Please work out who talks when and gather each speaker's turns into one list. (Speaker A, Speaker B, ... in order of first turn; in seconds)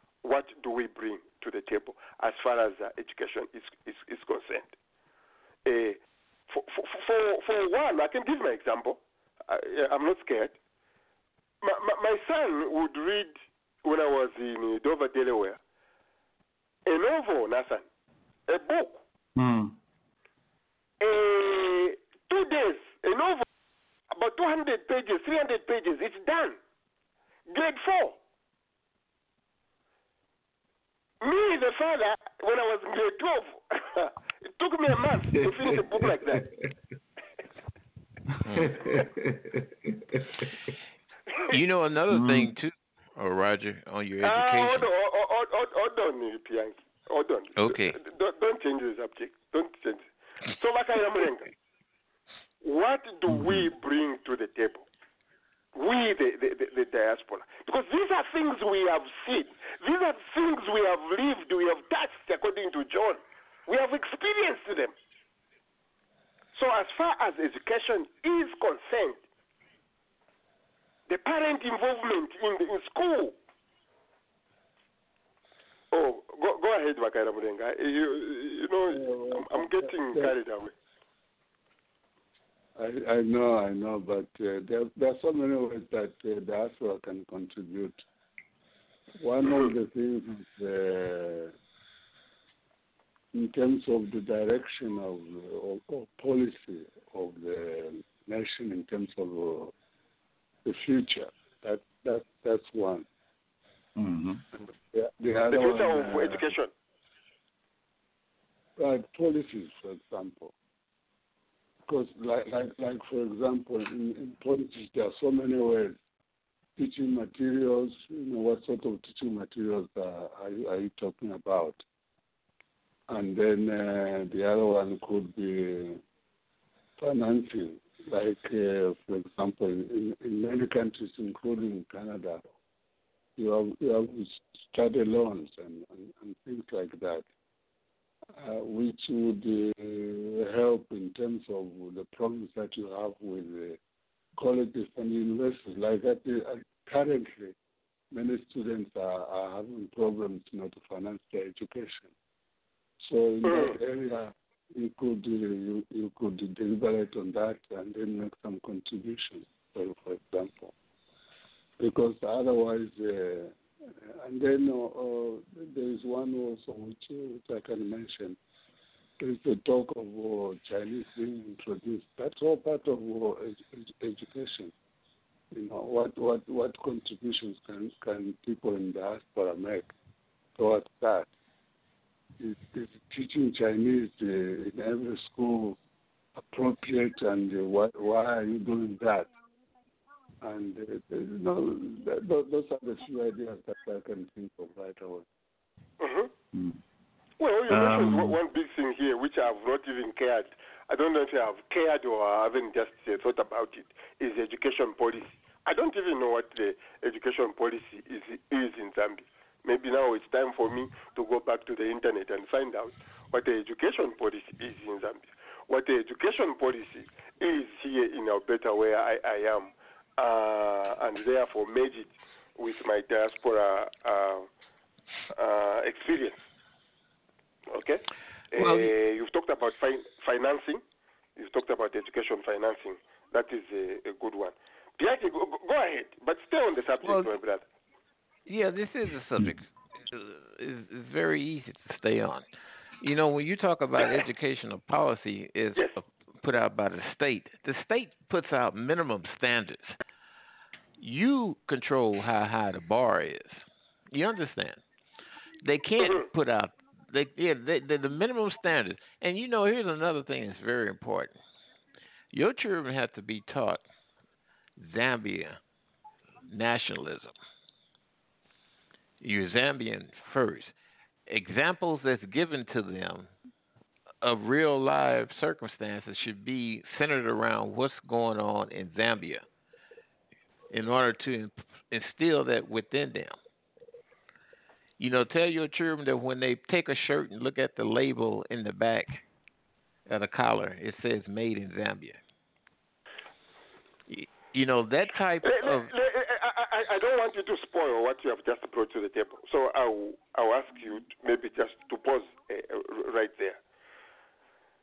Speaker A: 0.2-4.7, 5.7-6.0, 6.5-10.5, 11.6-15.6, 16.9-17.8, 18.5-19.0, 21.0-23.5, 24.1-26.6, 27.5-28.2, 31.2-36.4, 44.2-51.5, 52.6-54.9, 55.8-64.9, 66.5-69.2, 71.1-73.3, 75.9-80.7, 89.5-89.7, 105.5-106.7, 153.4-153.8, 196.0-196.3, 197.4-224.5, 225.3-226.4, 227.7-230.8, 231.4-237.6, 256.0-256.3, 295.4-303.6
Speaker B: 19.4-19.8, 38.5-40.7, 42.1-42.5, 53.3-53.7, 104.0-104.4, 196.5-196.8, 197.7-198.4
Speaker C: 38.5-38.8, 41.5-44.9, 47.6-48.0, 237.0-237.3, 238.5-242.4, 243.0-250.0, 251.0-254.8, 255.6-261.4, 262.3-263.8, 264.8-265.6, 266.5-267.4, 269.2-270.7, 271.3-273.3, 274.2-279.4, 280.7-283.4, 285.0-289.2, 290.1-292.2, 294.1-295.9
Speaker D: 78.9-80.3, 82.8-88.0, 89.2-91.5, 93.3-99.7, 100.7-103.1, 104.9-106.5, 108.8-110.5, 111.9-116.0, 116.8-121.8, 123.1-126.0, 127.0-132.4, 133.4-137.3, 138.4-143.8, 144.4-147.6, 148.1-152.1, 153.0-160.7, 161.8-163.6, 164.2-168.4, 169.2-174.7, 175.5-179.9, 180.6-181.3, 182.4-185.8, 186.5-189.3, 190.4-195.3